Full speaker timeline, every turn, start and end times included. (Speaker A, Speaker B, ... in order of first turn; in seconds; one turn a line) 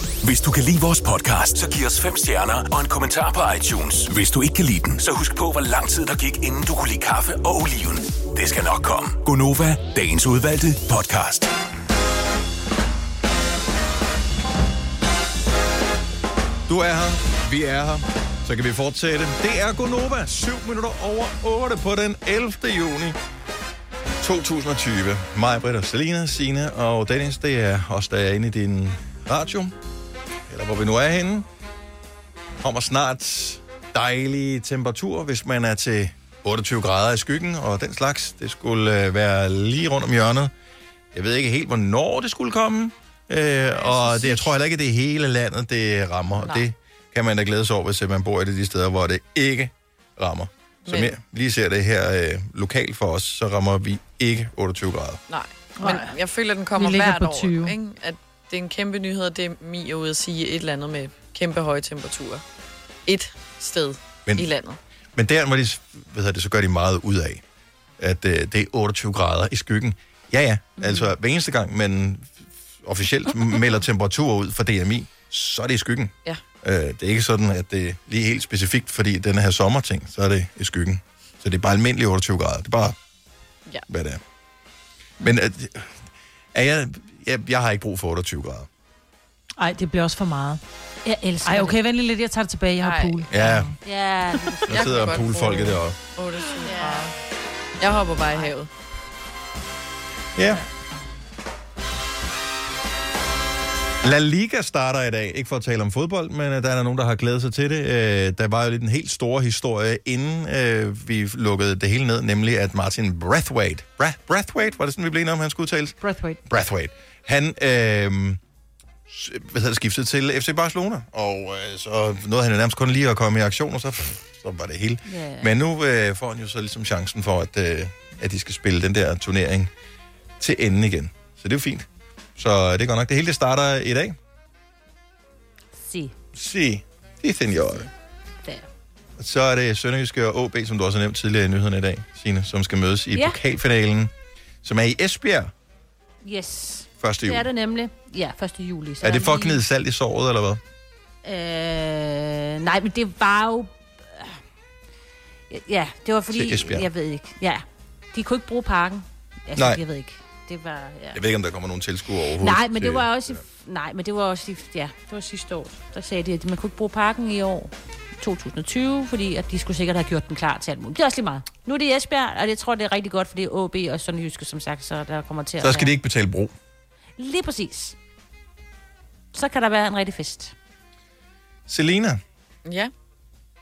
Speaker A: 0.2-11.5
Speaker B: 16.7-23.2
Speaker B: 24.2-29.8
Speaker B: 30.5-31.5
Speaker B: 32.6-40.5
Speaker B: 41.1-55.2
Speaker C: 46.4-46.6
Speaker C: 50.9-51.1
Speaker C: 55.3-62.4
Speaker D: 55.8-56.1
Speaker D: 56.8-57.8
Speaker C: 63.1-64.8
Speaker B: 65.2-67.4
Speaker B: 68.0-83.0
Speaker E: 70.8-71.1
Speaker B: 83.9-84.2
Speaker B: 85.2-86.0
Speaker B: 86.5-88.7
Speaker D: 89.6-90.6
Speaker E: 91.0-91.8
Speaker D: 91.4-93.7
Speaker C: 92.8-93.3
Speaker B: 93.3-93.7
Speaker E: 93.8-95.6
Speaker B: 94.7-96.0
Speaker C: 94.7-97.1
Speaker E: 96.6-97.1
Speaker C: 97.8-98.7
Speaker B: 100.4-100.6
Speaker B: 104.0-118.4
Speaker D: 116.0-116.4
Speaker B: 119.1-129.7
Speaker E: 125.1-125.5
Speaker B: 130.4-134.2
Speaker E: 135.8-136.1
Speaker B: 136.3-137.9
Speaker B: 139.2-144.1
Speaker E: 143.1-143.4
Speaker B: 144.6-145.5
Speaker E: 146.2-149.6
Speaker B: 147.0-147.5
Speaker B: 149.0-150.6
Speaker E: 151.2-154.4
Speaker E: 155.5-161.2
Speaker B: 156.3-156.9
Speaker B: 159.6-159.8
Speaker B: 161.1-163.4
Speaker E: 162.4-175.9
Speaker B: 175.6-176.5
Speaker E: 177.2-178.0
Speaker E: 179.3-180.5
Speaker B: 181.7-182.2
Speaker C: 182.7-182.9